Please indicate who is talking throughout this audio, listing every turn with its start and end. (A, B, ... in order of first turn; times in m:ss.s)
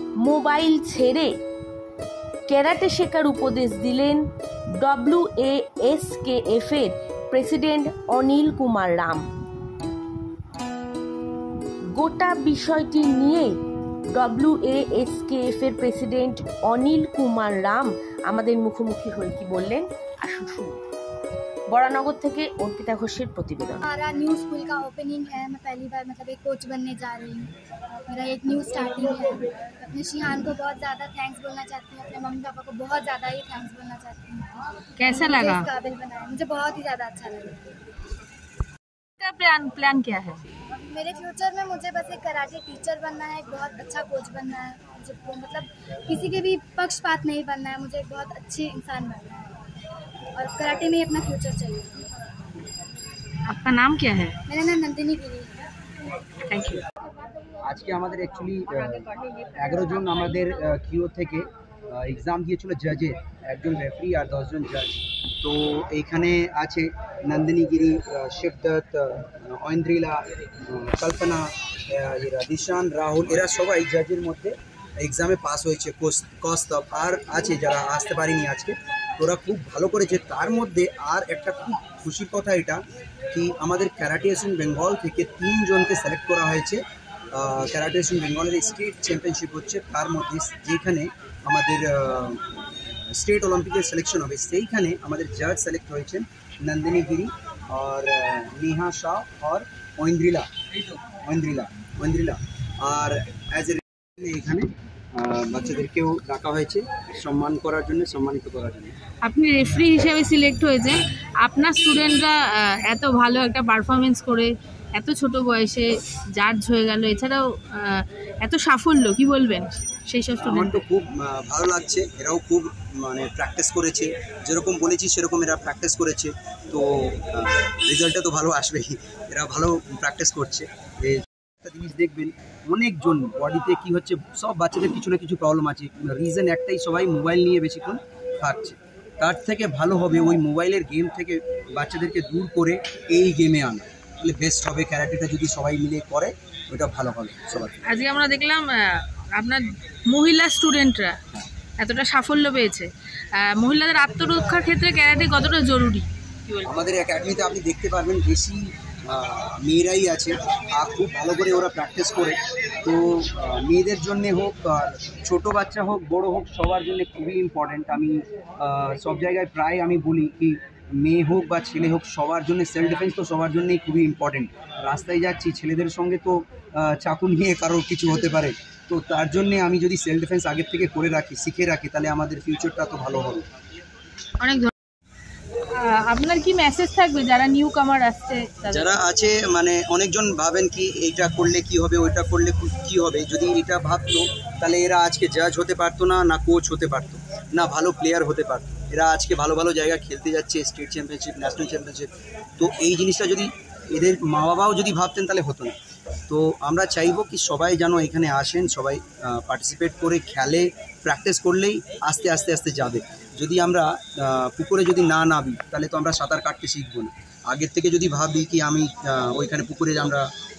0:00.2-0:01.3 A
0:02.5-0:04.2 A
0:04.8-0:09.2 A
0:12.0-0:13.6 A
0:14.1-0:20.8 A
0:21.7-0:23.8 A
0:23.8-0:27.5 B
0:28.1-0:34.5 B
0:35.0-0:35.7 C
0:35.1-0:37.8 B
0:39.2-0:40.4 C
0:40.8-0:49.4 B
0:50.4-0:51.9 B
0:53.5-0:54.4 C
0:54.5-0:55.7 B
0:56.5-0:56.8 C
0:57.7-1:22.8 D
1:23.3-1:26.8 D
1:27.3-1:32.4 D
1:33.1-1:49.0 D
1:49.2-2:00.8 C
2:00.4-2:27.8 D
2:27.9-2:31.2 C
2:31.8-2:36.6 C
2:36.7-3:03.5 D
3:04.4-3:04.7 C
3:05.8-3:09.0 C
3:08.7-3:25.8 D
3:26.3-3:40.3 D